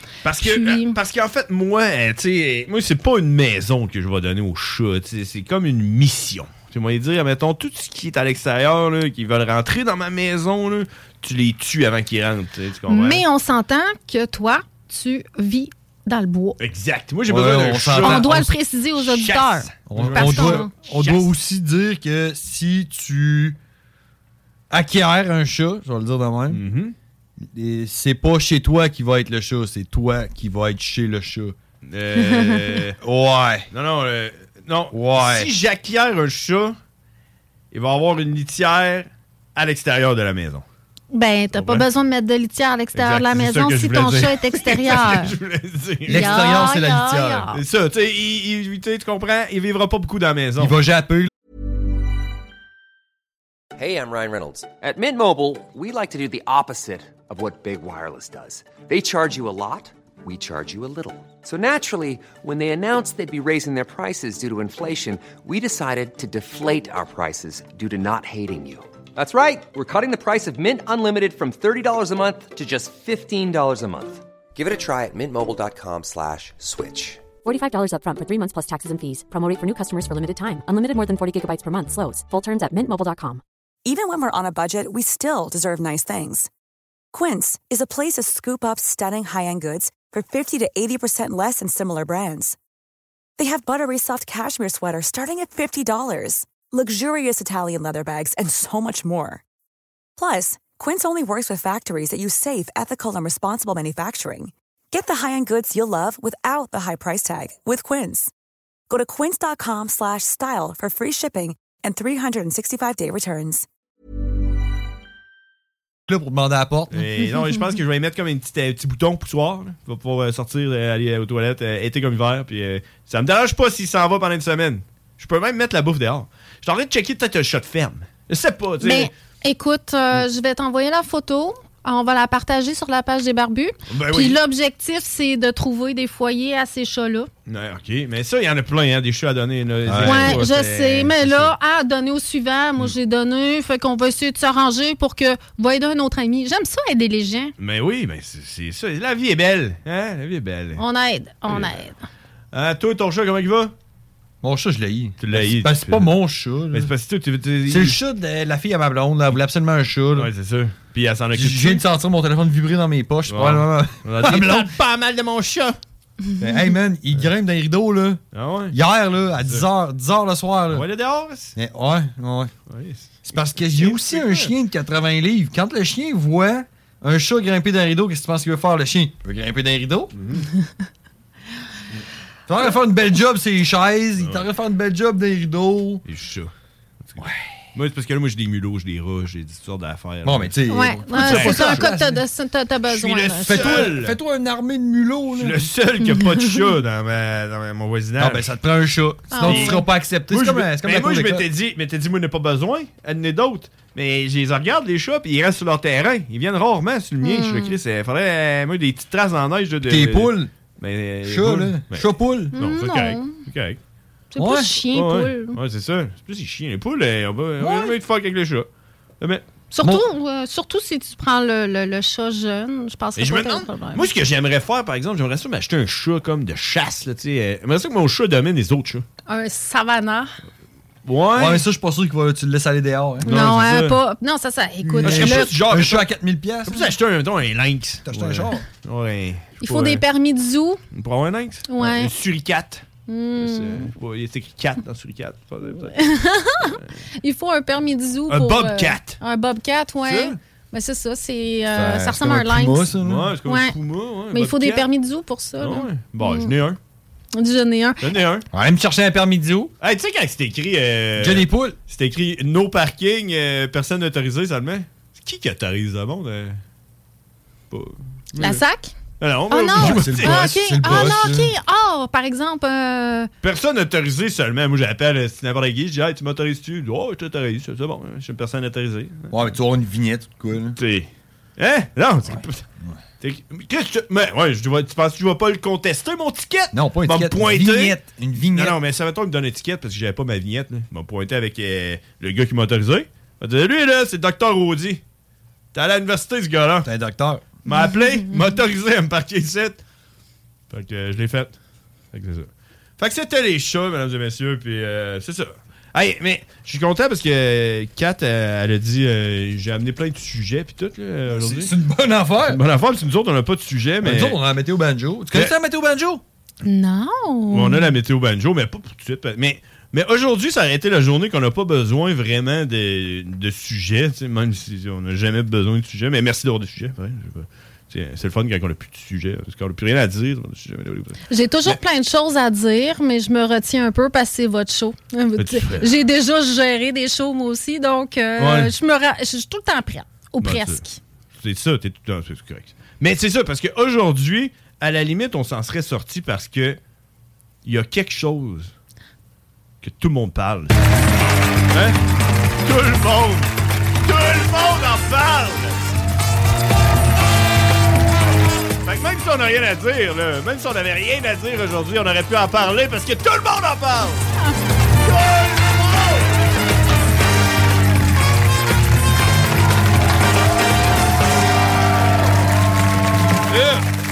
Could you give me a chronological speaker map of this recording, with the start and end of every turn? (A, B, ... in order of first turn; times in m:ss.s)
0:00.2-0:13.2 A
0:00.4-0:01.0 B
0:12.9-0:16.6 B
0:16.6-0:21.3 A
0:17.3-0:18.5 C
0:18.0-0:20.7 B
0:19.9-0:23.6 C
0:24.7-0:26.6 C
0:26.5-0:26.9 A
0:27.4-0:31.6 C
0:31.8-0:33.0 A
0:32.2-0:32.8 B
0:33.0-0:33.7 C
0:33.7-0:36.8 A
0:34.9-0:35.5 C
0:37.7-0:40.6 A
0:41.1-0:45.3 B
0:41.5-0:41.8 A
0:42.9-0:46.6 A
0:46.0-0:47.5 C
0:46.1-0:47.6 B
0:47.5-0:50.8 A
0:50.6-0:51.3 C
0:53.8-1:17.2 D
1:17.4-1:23.4 E
1:23.8-1:26.5 F
1:27.1-1:32.6 F
1:33.4-1:39.4 F
1:40.2-1:48.3 F
1:48.9-1:53.6 F
1:56.1-1:57.0 C
1:56.9-2:09.1 A
2:08.8-2:17.3 B
2:13.9-2:14.4 A
2:17.5-2:21.5 A
2:19.8-2:20.4 C
2:20.0-2:27.5 B
2:27.6-2:30.8 A
2:30.8-2:32.0 B
2:31.5-2:31.7 A
2:32.5-2:33.7 A
2:34.4-2:36.9 C
2:35.2-2:36.1 A
2:36.7-2:38.0 A
2:37.7-2:40.3 C
2:40.2-2:41.8 A
2:41.3-2:44.7 C
2:43.3-2:45.8 A
2:46.4-2:48.2 C
2:48.3-2:48.8 A
2:48.7-2:50.8 C
2:49.4-2:49.6 A
2:50.7-2:51.5 A
2:51.5-2:52.5 C
2:52.7-2:54.5 A
2:53.2-3:00.1 C
3:00.1-3:00.5 A
3:02.5-3:06.0 C
3:04.2-3:04.4 A
3:06.0-3:06.5 A
3:07.0-3:11.9 A
3:10.2-3:12.2 C
3:10.7-3:13.9 B
3:12.9-3:14.2 A
3:13.4-3:15.6 C
3:15.3-3:18.5 A
3:16.2-3:16.6 B
3:18.2-3:21.4 C
3:19.3-3:19.8 B
3:19.4-3:33.8 A
3:27.2-3:27.7 B
3:29.8-3:30.5 C
3:31.2-3:32.5 C
3:32.5-3:33.4 B
3:34.3-3:35.6 B
3:34.4-3:34.7 C
3:34.9-3:38.7 A
3:37.6-3:37.9 C
3:39.2-3:39.4 A
3:39.7-3:44.1 B
3:43.2-3:49.0 A
3:49.3-3:50.3 B
3:51.0-3:51.6 A
3:51.3-3:53.3 C
3:53.2-3:54.0 A
3:53.2-3:55.5 B
3:54.8-3:56.9 C
3:55.0-3:56.1 A
3:56.6-4:00.0 A
3:58.0-3:58.6 C
3:59.6-4:00.8 B
4:00.9-4:02.8 A
4:01.7-4:02.1 B
4:03.1-4:03.9 B
4:03.4-4:06.0 A
4:05.9-4:12.9 B
4:08.3-4:09.2 A
4:10.0-4:10.4 A
4:11.7-4:13.3 C
4:13.0-4:14.8 A
4:13.4-4:13.7 B
4:14.3-4:16.5 B
4:15.6-4:16.8 A
4:17.3-4:18.1 B
4:18.0-4:18.4 A
4:18.5-4:19.7 C
4:19.8-4:26.6 A
4:21.2-4:21.8 C
4:27.7-4:28.6 A
4:28.4-4:28.9 B
4:29.2-4:31.1 A
4:29.5-4:33.3 B
4:29.7-4:31.5 C
4:33.4-4:39.3 A
4:39.3-4:40.8 C
4:40.8-4:42.6 A
4:43.2-4:48.0 A
4:46.7-4:48.8 C
4:48.5-4:55.0 A
4:55.7-4:56.9 A
4:56.8-4:57.4 C
4:57.6-4:59.8 A
5:00.7-5:01.6 A
5:02.1-5:11.7 A
5:11.3-5:12.6 C
5:12.4-5:14.4 A
5:14.0-5:16.2 C
5:16.6-5:17.9 B
5:17.5-5:31.8 A
5:31.3-5:41.0 B
5:35.4-5:35.9 A
5:38.4-5:38.7 A
5:40.4-5:40.8 A
5:41.4-5:46.8 A
5:47.6-5:48.7 A
5:49.8-5:50.8 A
5:51.7-5:52.0 A
5:52.6-5:53.5 A
5:54.0-5:55.9 A
5:58.8-6:04.3 A
6:05.0-6:06.3 A
6:13.5-6:13.9 A